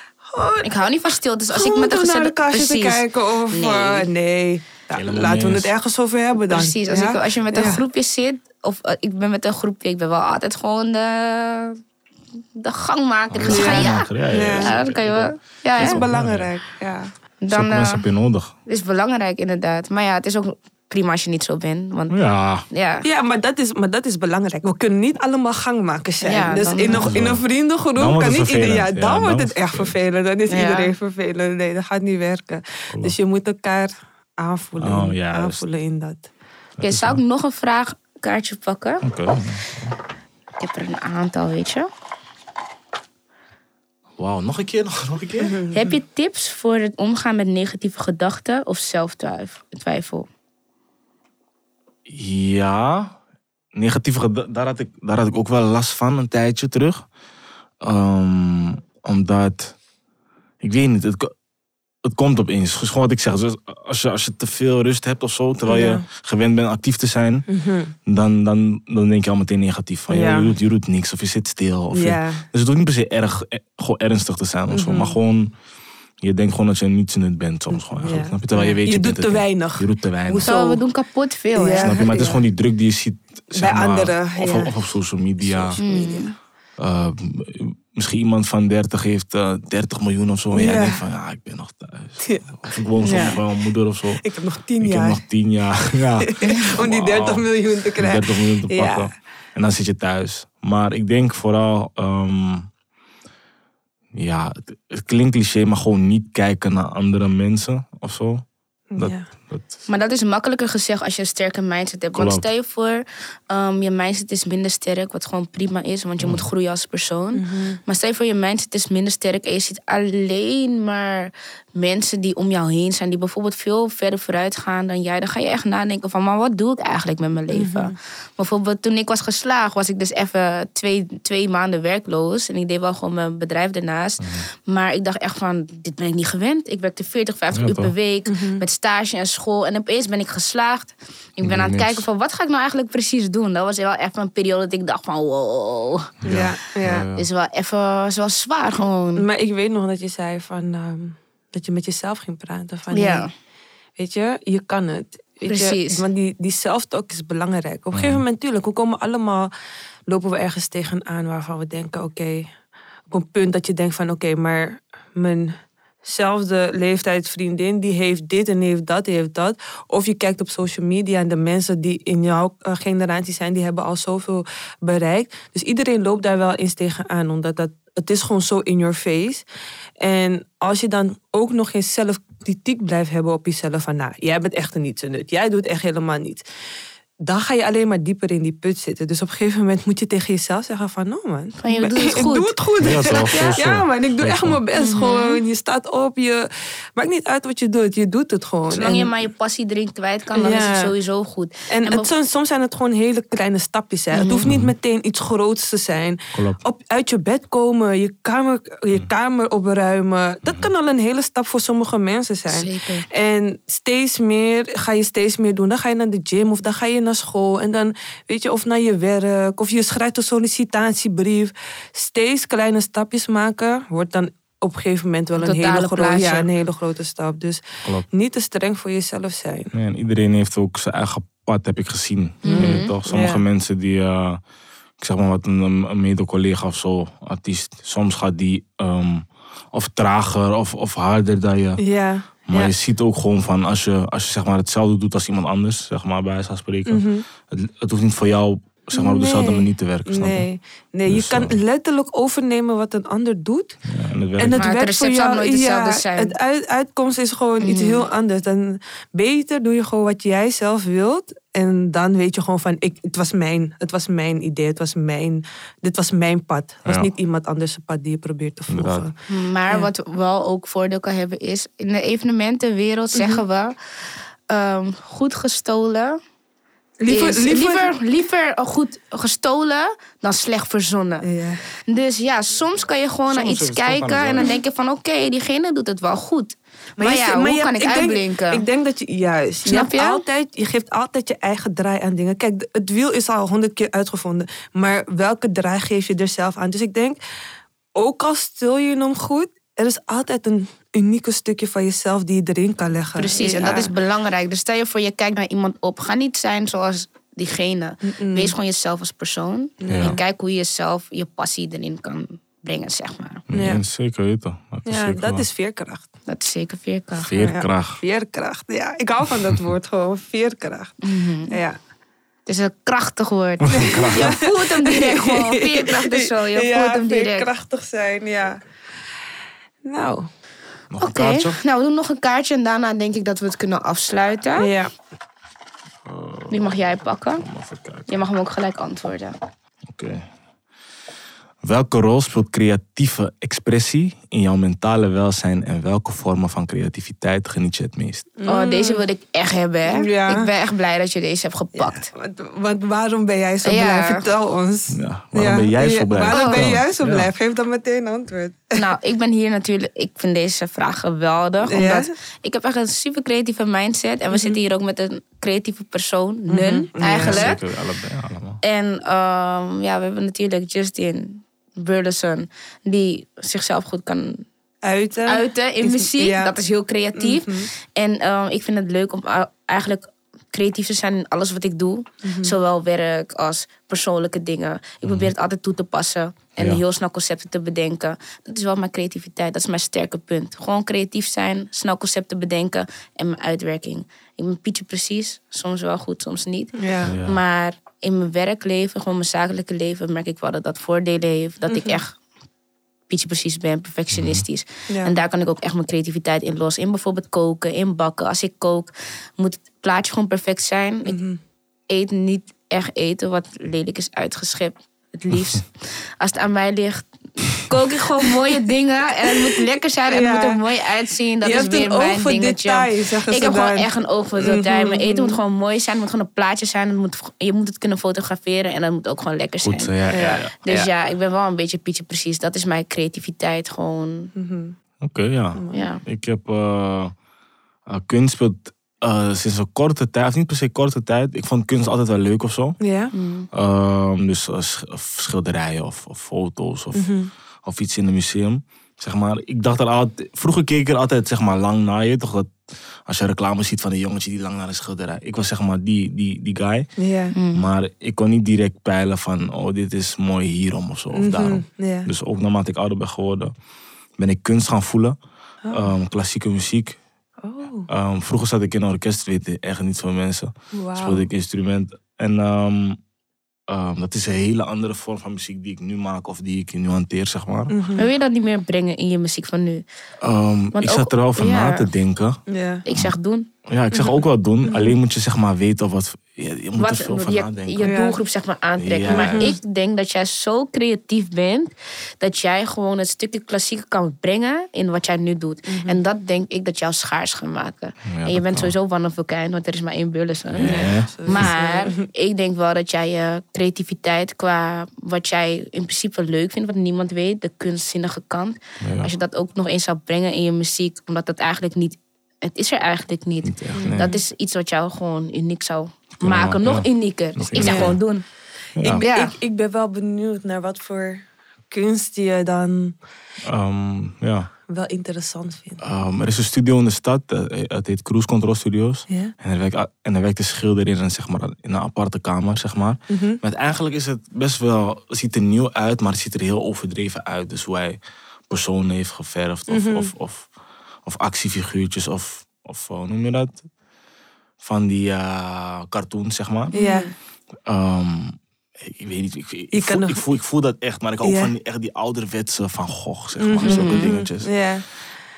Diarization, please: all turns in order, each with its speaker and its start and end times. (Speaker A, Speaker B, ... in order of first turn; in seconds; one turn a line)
Speaker A: 0.2-0.8
Speaker B: 0.6-4.1
Speaker A: 1.5-7.8
Speaker C: 4.9-5.7
Speaker B: 6.5-11.8
Speaker B: 12.6-16.0
Speaker C: 13.3-16.5
Speaker A: 13.5-14.8
Speaker A: 15.8-17.1
Speaker B: 17.4-18.0
Speaker C: 17.5-18.5
Speaker B: 18.7-22.1
Speaker C: 22.1-22.6
Speaker B: 22.7-23.1
Speaker A: 23.0-36.2
Speaker B: 26.2-27.1
Speaker C: 26.9-29.9
Speaker B: 30.5-30.9
Speaker C: 34.8-35.6
Speaker C: 36.8-37.2
Speaker B: 36.8-39.0
Speaker C: 39.0-40.0
Speaker B: 40.6-41.9
Speaker C: 44.2-45.6
Speaker A: 45.4-45.8
Speaker B: 45.7-50.3
Speaker C: 52.1-53.1
Speaker C: 53.7-57.1
Speaker C: 57.8-59.8
Speaker C: 60.6-61.3
Speaker C: 62.0-67.5
Speaker A: 65.7-66.0
Speaker A: 67.5-67.9
Speaker C: 68.0-75.5
Speaker A: 70.1-70.5
Speaker A: 71.9-72.4
Speaker A: 74.7-75.2
Speaker C: 76.2-80.5
Speaker A: 77.7-80.8
Speaker B: 80.4-82.3
Speaker A: 81.5-82.3
Speaker C: 81.8-85.8
Speaker A: 83.5-84.7
Speaker A: 85.4-86.3
Speaker B: 85.8-86.3
Speaker C: 86.8-94.2
Speaker A: 90.5-91.0
Speaker A: 92.2-92.5
Speaker A: 93.0-93.4
Speaker B: 93.0-93.4
Speaker A: 94.2-95.2
Speaker C: 94.8-102.7
Speaker A: 96.2-99.1
Speaker C: 104.1-108.5
Speaker A: 108.9-109.2
Speaker C: 109.0-109.8
Speaker B: 109.9-146.1
Speaker C: 112.1-112.4
Speaker C: 116.2-116.4
Speaker A: 117.3-117.8
Speaker A: 127.5-127.9
Speaker C: 134.2-134.4
Speaker C: 137.5-137.9
Speaker A: 138.3-138.6
Speaker C: 141.4-142.0
Speaker C: 146.2-147.2
Speaker A: 146.3-147.1
Speaker B: 147.1-149.2
Speaker A: 149.2-153.3
Speaker B: 152.9-153.3
Speaker A: 154.0-159.5
Speaker B: 155.4-156.0
Speaker C: 157.9-158.2
Speaker A: 160.1-162.5
Speaker A: 163.1-179.4
Speaker A: 180.0-186.4
Speaker A: 187.2-199.1
Speaker B: 191.6-193.6
Speaker C: 192.8-194.6
Speaker B: 194.7-195.4
Speaker B: 198.7-202.1
Speaker A: 200.3-200.9
Speaker A: 201.7-229.7
Speaker B: 204.1-204.5
Speaker C: 204.4-204.7
Speaker C: 206.3-206.6
Speaker B: 212.5-213.1
Speaker B: 225.4-226.5
Speaker C: 229.7-234.4
Speaker B: 232.4-232.9
Speaker A: 232.4-233.4
Speaker C: 235.0-241.8
Speaker A: 241.8-242.7
Speaker C: 242.5-250.4
Speaker A: 246.9-247.2
Speaker A: 248.9-253.8
Speaker C: 251.1-251.6
Speaker C: 253.8-254.7
Speaker A: 254.4-269.1
Speaker B: 254.6-256.3
Speaker B: 257.6-258.1
Speaker C: 268.7-269.1
Speaker B: 269.3-273.7
Speaker A: 273.1-273.4
Speaker B: 274.5-276.2
Speaker A: 277.0-277.9
Speaker B: 277.1-281.3
Speaker A: 281.2-281.6
Speaker B: 281.9-288.6
Speaker C: 283.3-284.5
Speaker A: 287.0-297.2
Speaker B: 289.6-290.2
Speaker A: 297.9-303.9
Speaker B: 303.2-313.4
Speaker A: 308.0-308.5
Speaker A: 309.8-310.2
Speaker C: 309.9-310.2
Speaker C: 313.5-315.4
Speaker A: 313.5-313.8
Speaker A: 314.9-316.1
Speaker B: 316.3-317.4
Speaker C: 317.2-318.0
Speaker A: 317.4-321.8
Speaker B: 321.0-321.6
Speaker B: 322.4-327.5
Speaker C: 323.6-324.4
Speaker A: 323.7-328.6
Speaker A: 329.8-330.3
Speaker C: 330.9-331.6
Speaker B: 331.0-334.7
Speaker A: 334.6-334.9
Speaker C: 336.1-338.2
Speaker B: 336.5-337.4
Speaker B: 338.1-339.4
Speaker C: 339.9-340.3
Speaker C: 341.6-348.3
Speaker A: 348.4-349.0
Speaker B: 348.5-352.1
Speaker A: 349.9-350.5
Speaker A: 351.8-358.8
Speaker B: 353.6-354.3
Speaker C: 354.9-357.3
Speaker B: 356.2-356.6
Speaker B: 358.7-367.6
Speaker A: 361.6-362.1
Speaker A: 364.3-364.6
Speaker A: 366.5-367.5
Speaker C: 367.2-368.6
Speaker B: 368.6-374.4
Speaker A: 374.8-376.6
Speaker B: 375.2-402.1
Speaker A: 377.1-377.7
Speaker A: 382.2-382.6
Speaker C: 385.0-385.3
Speaker A: 396.8-397.1
Speaker C: 397.0-397.4
Speaker A: 401.7-402.0
Speaker B: 403.1-411.2
Speaker C: 404.1-404.4
Speaker A: 404.9-405.1
Speaker A: 411.0-411.4
Speaker B: 411.9-434.3
Speaker A: 419.3-420.6
Speaker A: 421.4-425.4
Speaker C: 429.6-430.5
Speaker A: 430.1-430.9
Speaker A: 434.4-434.7
Speaker C: 435.0-437.1
Speaker A: 435.5-435.9
Speaker B: 435.7-436.0
Speaker C: 437.9-442.8
Speaker A: 442.8-443.1
Speaker B: 443.1-443.5
Speaker C: 443.5-456.9
Speaker A: 446.9-447.3
Speaker A: 457.0-457.3
Speaker B: 457.3-457.7
Speaker C: 457.5-463.5
Speaker A: 461.1-462.1
Speaker C: 464.2-465.1
Speaker C: 465.7-467.0
Speaker A: 467.4-467.9
Speaker C: 467.9-473.0
Speaker A: 470.7-471.2
Speaker C: 473.7-477.8
Speaker A: 477.7-478.1
Speaker B: 477.9-479.8
Speaker C: 480.2-482.4
Speaker B: 480.7-481.9
Speaker A: 482.5-482.8
Speaker B: 482.8-483.5
Speaker C: 482.9-483.1
Speaker C: 483.7-487.9
Speaker A: 483.9-484.9
Speaker B: 486.8-518.2
Speaker A: 487.8-488.2
Speaker C: 488.8-489.5
Speaker A: 489.1-489.6
Speaker A: 495.7-496.0
Speaker C: 498.1-498.7
Speaker C: 500.5-501.5
Speaker A: 500.6-502.0
Speaker C: 508.8-509.1
Speaker C: 513.4-514.1
Speaker A: 513.8-514.2
Speaker C: 516.2-518.0
Speaker A: 517.5-518.0
Speaker C: 518.8-519.0
Speaker A: 518.8-523.0
Speaker B: 519.0-519.3
Speaker C: 523.4-524.5
Speaker A: 524.7-525.8
Speaker C: 525.8-540.5
Speaker A: 533.1-533.4
Speaker A: 539.7-540.1
Speaker C: 541.0-543.6
Speaker C: 544.6-546.7
Speaker B: 546.7-547.1
Speaker A: 546.7-547.1
Speaker C: 547.6-554.5
Speaker A: 549.7-550.2
Speaker A: 551.2-551.5
Speaker A: 553.4-554.8
Speaker B: 553.6-554.2